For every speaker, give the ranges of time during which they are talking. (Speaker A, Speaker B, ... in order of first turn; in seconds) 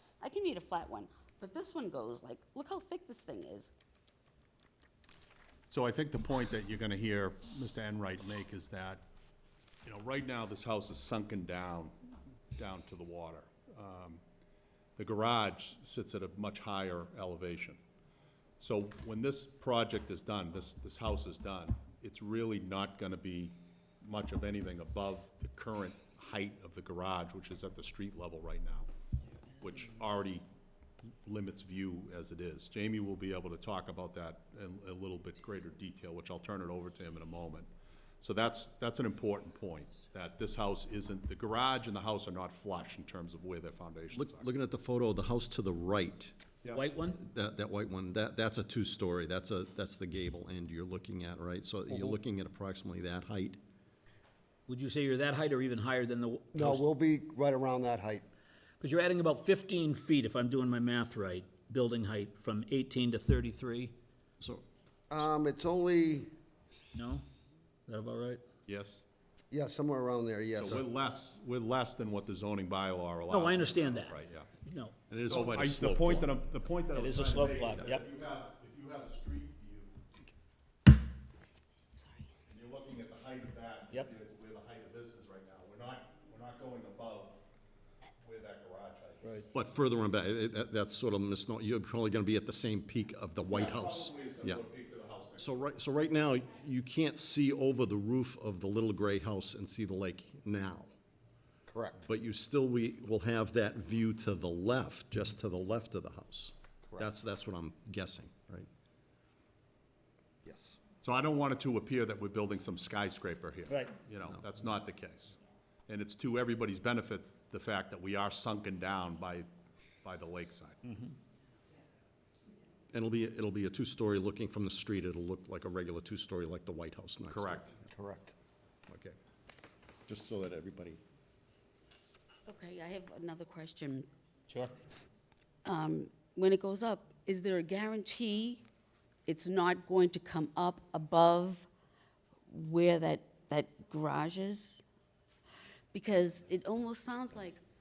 Speaker A: 0.2-3.7, 82.0-82.2, 132.5-134.1, 135.7-138.6, 139.3-141.7, 142.5-144.8, 145.9-147.6
Speaker B: 5.7-9.0, 9.9-11.9, 12.6-14.2, 15.0-17.8, 18.6-28.9, 29.6-30.4, 31.2-37.7, 38.2-44.5, 68.7-69.0, 70.6-74.5, 75.3-80.0, 82.5-87.4, 88.2-89.5, 93.5-95.6, 111.0-115.4, 115.9-119.5, 120.0-120.8, 127.3-127.8
Speaker C: 44.1-46.4, 47.1-53.6, 64.4-64.7, 75.1-76.4, 89.5-94.6, 95.4-100.9, 102.0-108.7, 122.9-127.7, 128.9-129.2, 130.1-131.0
Speaker D: 46.7-47.2, 54.7-56.8, 58.8-63.9, 67.0-67.2, 67.9-68.4, 73.3-75.0, 76.9-78.1, 113.7-114.0, 120.9-121.1
Speaker E: 51.9-52.2, 56.5-58.3, 65.1-66.3, 69.5-70.9, 101.7-102.0, 110.5-110.8, 127.8-128.3